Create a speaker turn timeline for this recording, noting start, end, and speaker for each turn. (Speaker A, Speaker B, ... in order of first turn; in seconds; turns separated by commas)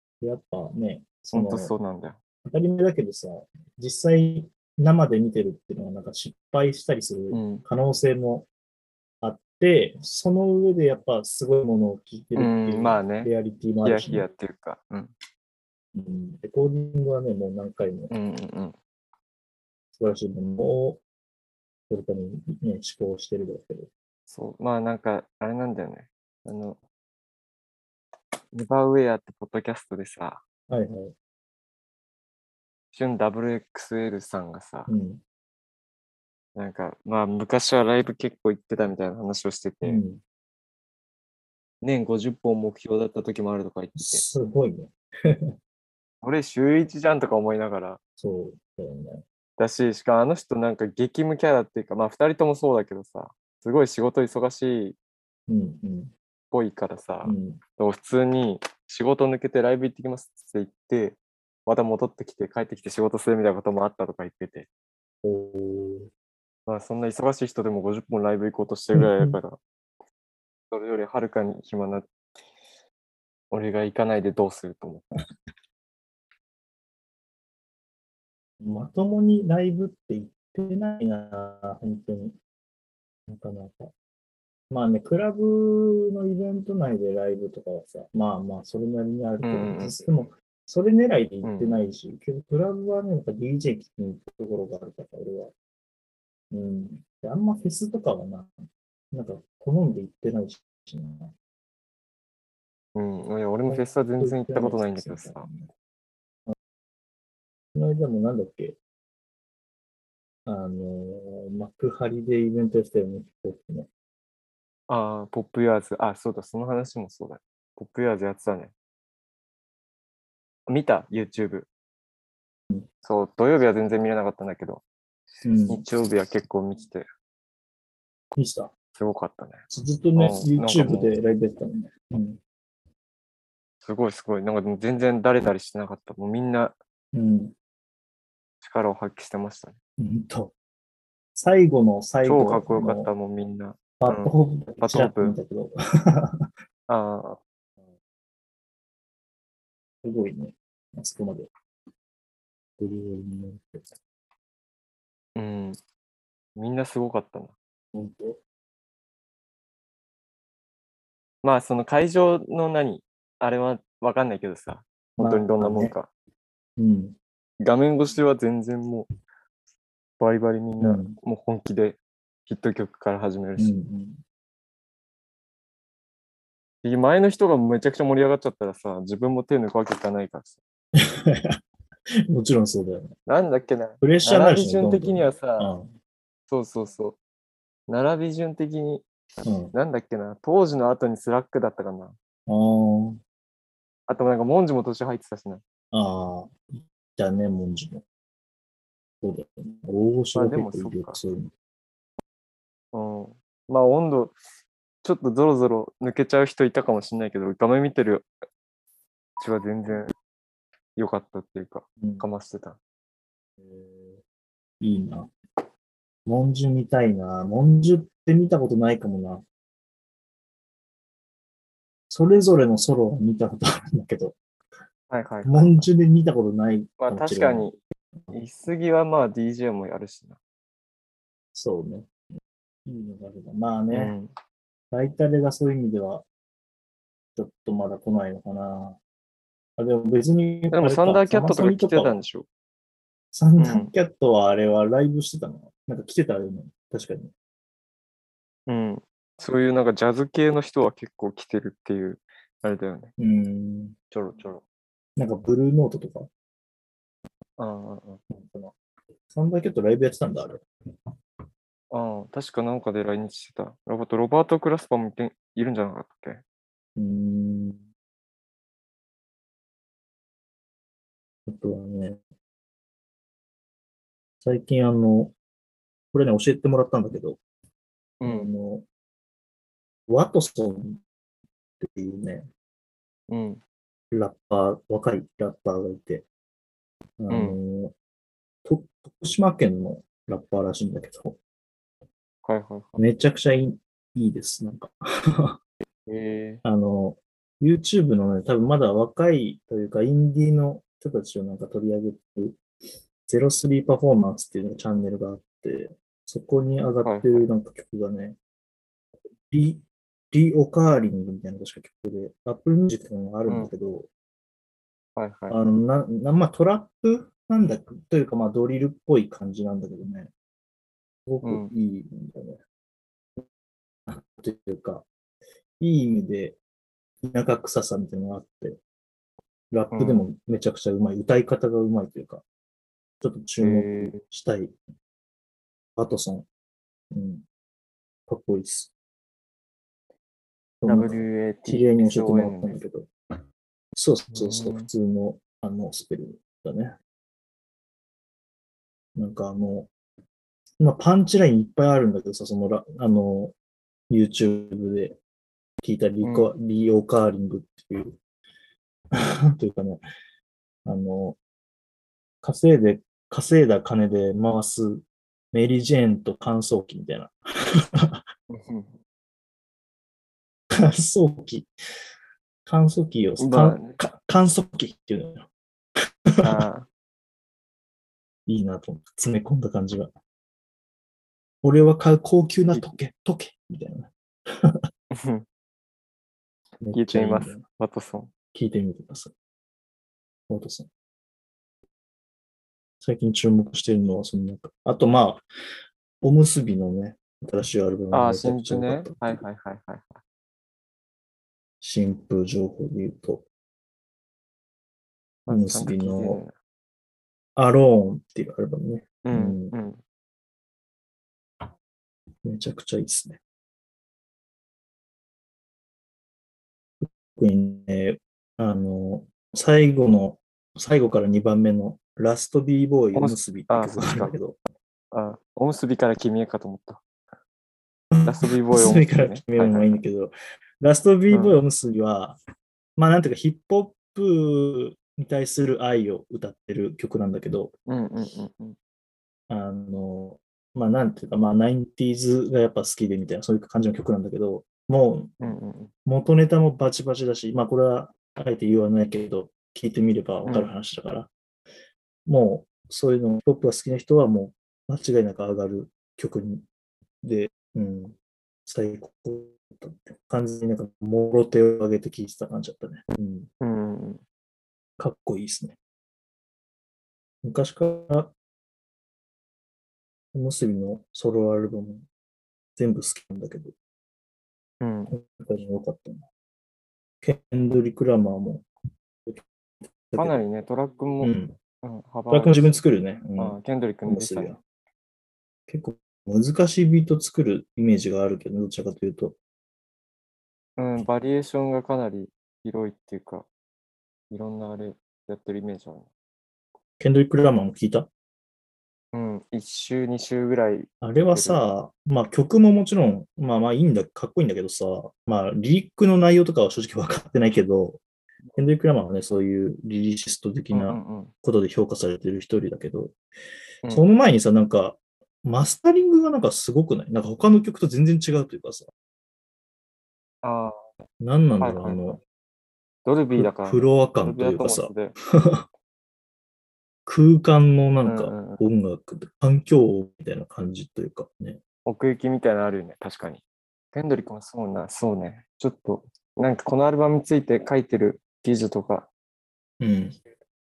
Speaker A: 0.2-1.7, Speaker B: 1.3-2.2, Speaker A: 2.5-8.5, Speaker B: 7.3-7.6, Speaker A: 9.2-14.3, Speaker B: 12.4-13.3, Speaker B: 13.8-15.1, Speaker A: 15.9-18.1, Speaker B: 18.1-18.8, Speaker A: 19.9-21.0, Speaker A: 21.9-23.9, Speaker B: 24.3-26.8, Speaker B: 28.5-30.4, Speaker A: 30.7-31.1, Speaker B: 32.9-34.9, Speaker A: 34.9-35.2, Speaker B: 36.5-40.0, Speaker A: 39.8-40.2, Speaker B: 41.8-44.2, Speaker A: 44.0-45.5, Speaker B: 46.2-48.0, Speaker A: 48.2-49.2, Speaker B: 49.6-55.0, Speaker A: 55.5-56.1, Speaker B: 56.5-64.7, Speaker A: 57.2-57.6, Speaker A: 65.2-66.1, Speaker B: 66.7-69.6, Speaker A: 69.0-69.4, Speaker B: 70.7-72.1, Speaker B: 73.5-75.1, Speaker A: 78.6-82.4, Speaker A: 83.3-83.9, Speaker A: 84.7-95.5, Speaker B: 89.4-90.0, Speaker B: 91.4-91.8, Speaker A: 96.5-98.5, Speaker A: 99.1-101.3, Speaker B: 103.0-105.5, Speaker A: 103.7-105.7, Speaker A: 107.8-108.8, Speaker A: 110.5-113.9, Speaker B: 114.9-118.7, Speaker B: 120.7-121.7, Speaker B: 123.0-124.8, Speaker A: 125.5-125.8, Speaker B: 125.7-127.1, Speaker A: 128.3-128.7, Speaker B: 128.9-129.6, Speaker A: 129.7-132.4, Speaker B: 130.2-131.1, Speaker B: 133.8-136.8, Speaker A: 137.1-137.5, Speaker B: 138.6-139.8, Speaker A: 140.0-140.5, Speaker A: 141.3-143.1, Speaker B: 142.2-145.3, Speaker A: 144.0-146.5, Speaker B: 146.9-147.4, Speaker A: 150.0-151.5, Speaker A: 152.8-153.8, Speaker B: 155.4-155.8, Speaker B: 156.6-157.5, Speaker A: 157.9-158.4, Speaker B: 161.4-166.1, Speaker A: 165.2-165.9, Speaker A: 166.8-167.2, Speaker B: 167.6-169.1, Speaker B: 170.2-173.8, Speaker A: 170.8-171.2, Speaker A: 173.6-174.2, Speaker B: 176.8-180.6, Speaker A: 181.0-181.6, Speaker A: 182.3-183.1, Speaker B: 183.3-185.7, Speaker A: 184.0-185.9, Speaker B: 186.5-187.2, Speaker B: 187.9-189.1, Speaker A: 189.4-189.7, Speaker B: 189.7-192.2, Speaker A: 192.5-193.2, Speaker B: 194.1-195.6, Speaker A: 195.9-198.0, Speaker A: 199.2-201.5, Speaker B: 200.3-201.2, Speaker B: 202.9-204.4, Speaker B: 205.0-208.3, Speaker B: 209.4-210.1, Speaker B: 211.0-212.8, Speaker A: 212.0-212.3, Speaker A: 213.6-214.2, Speaker A: 214.8-215.3, Speaker A: 216.3-219.4, Speaker A: 222.1-224.4, Speaker B: 225.1-225.9, Speaker A: 225.4-227.7, Speaker B: 227.0-227.8, Speaker B: 228.3-230.4, Speaker A: 231.5-232.1, Speaker A: 232.9-234.2, Speaker B: 233.9-234.3, Speaker A: 234.9-236.2, Speaker A: 237.3-239.0, Speaker A: 239.8-242.2, Speaker B: 240.7-242.5, Speaker A: 243.3-247.3, Speaker B: 243.6-243.9, Speaker B: 248.7-253.1, Speaker A: 253.2-254.0, Speaker B: 254.1-254.6, Speaker A: 255.2-256.3, Speaker B: 257.6-258.2, Speaker A: 258.3-258.7, Speaker A: 259.3-260.6, Speaker B: 261.9-266.4, Speaker A: 267.0-267.9, Speaker A: 271.5-272.2, Speaker A: 274.4-275.3, Speaker A: 276.1-277.4, Speaker B: 278.2-278.5, Speaker A: 278.2-278.9, Speaker A: 280.1-281.0, Speaker A: 281.8-282.5, Speaker B: 283.3-283.6, Speaker A: 284.1-286.3, Speaker A: 287.2-287.9, Speaker B: 287.3-287.6, Speaker A: 288.6-291.4, Speaker B: 292.4-293.0, Speaker A: 293.0-295.6, Speaker B: 296.1-296.6, Speaker A: 296.6-302.6, Speaker A: 303.3-308.4, Speaker B: 307.0-307.5, Speaker A: 309.5-314.1, Speaker B: 315.2-315.6, Speaker A: 315.5-320.3, Speaker A: 321.3-322.6, Speaker B: 321.4-321.7, Speaker A: 324.1-325.1, Speaker A: 325.8-326.6, Speaker A: 327.2-328.8, Speaker A: 329.7-332.4, Speaker B: 329.9-330.3, Speaker A: 333.2-334.7, Speaker B: 333.6-334.2, Speaker A: 336.0-336.5, Speaker A: 337.1-337.4, Speaker A: 338.3-338.9, Speaker A: 340.8-343.1, Speaker B: 340.9-342.8, Speaker A: 343.9-346.9, Speaker B: 344.3-344.9, Speaker A: 349.2-349.9, Speaker A: 350.8-353.5, Speaker A: 354.1-355.2, Speaker A: 355.8-358.2, Speaker B: 356.2-356.5, Speaker A: 359.1-360.0, Speaker A: 360.9-361.4, Speaker A: 362.4-368.2, Speaker B: 368.5-368.9, Speaker A: 370.8-371.7, Speaker A: 372.7-375.5, Speaker B: 373.4-374.0, Speaker A: 376.3-376.6, Speaker B: 376.4-376.9, Speaker A: 378.5-380.1, Speaker A: 381.6-384.8, Speaker B: 385.1-385.4, Speaker A: 386.8-387.6, Speaker B: 386.9-388.3, Speaker A: 388.5-389.3, Speaker A: 390.5-390.9, Speaker A: 393.0-395.4, Speaker A: 396.2-399.4, Speaker B: 398.1-400.2, Speaker A: 401.8-403.4, Speaker B: 405.5-406.5, Speaker A: 405.5-406.4, Speaker A: 407.6-409.8, Speaker B: 409.2-410.0, Speaker A: 412.4-413.4, Speaker A: 417.0-424.6, Speaker B: 423.1-424.3, Speaker B: 425.1-427.0, Speaker A: 428.1-432.4, Speaker B: 428.3-429.9, Speaker B: 431.3-431.6, Speaker A: 433.0-437.7, Speaker B: 437.9-438.8, Speaker A: 439.5-445.5, Speaker B: 445.4-445.9, Speaker A: 446.1-451.3, Speaker B: 450.5-450.7, Speaker A: 452.3-456.7, Speaker A: 457.2-463.5, Speaker B: 463.6-464.2, Speaker A: 465.0-465.8, Speaker A: 467.4-468.3, Speaker A: 470.3-472.1, Speaker A: 472.8-473.7, Speaker B: 474.8-475.1, Speaker A: 475.1-476.3, Speaker A: 477.2-478.7, Speaker A: 480.1-480.4, Speaker B: 480.2-482.8, Speaker A: 481.2-481.6, Speaker A: 482.3-484.6, Speaker B: 483.4-484.5, Speaker A: 485.7-489.4, Speaker B: 490.8-493.5, Speaker B: 494.3-496.1, Speaker A: 497.0-498.1, Speaker B: 499.1-501.6, Speaker A: 501.0-508.0, Speaker A: 508.6-513.1, Speaker B: 510.7-511.3, Speaker A: 513.9-518.9, Speaker B: 520.4-520.9, Speaker A: 521.2-522.2, Speaker B: 521.6-522.1, Speaker B: 523.0-525.2, Speaker A: 523.4-525.6, Speaker A: 527.1-531.6, Speaker B: 528.0-528.6, Speaker B: 531.9-533.4, Speaker B: 533.9-539.1, Speaker A: 539.8-540.2